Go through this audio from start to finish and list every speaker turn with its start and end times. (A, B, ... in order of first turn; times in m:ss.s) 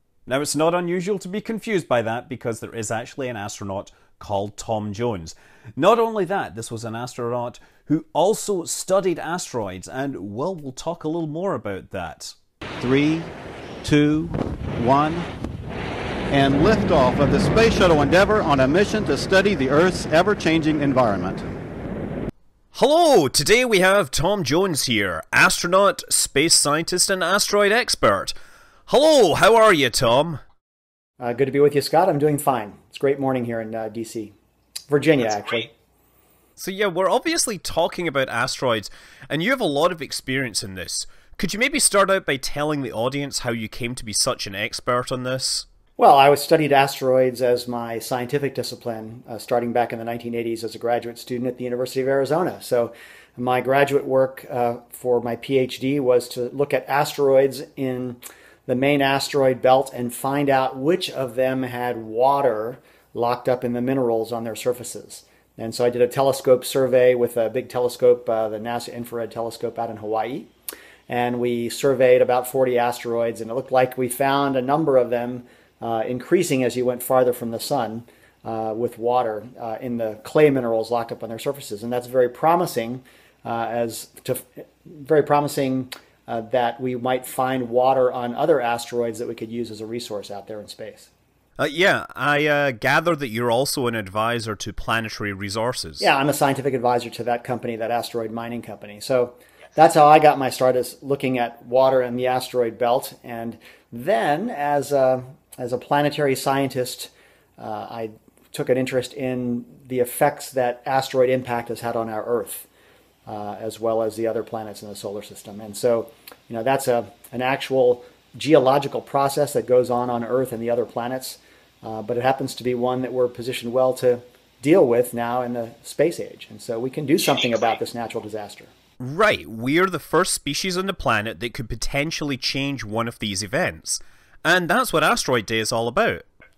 0:00.3-0:12.4 A
0:12.8-0:13.3 B
0:13.8-0:15.3 B
0:16.3-0:21.4 B
0:22.7-0:28.3 A
0:28.9-0:30.4 A
0:31.2-0:34.3 C
0:34.9-0:35.7 C
0:36.6-0:45.7 A
0:46.0-1:10.5 C
1:11.1-1:31.1 C
1:31.6-1:36.1 A
1:36.0-1:52.7 C
1:53.3-2:08.7 C
2:09.0-2:16.3 A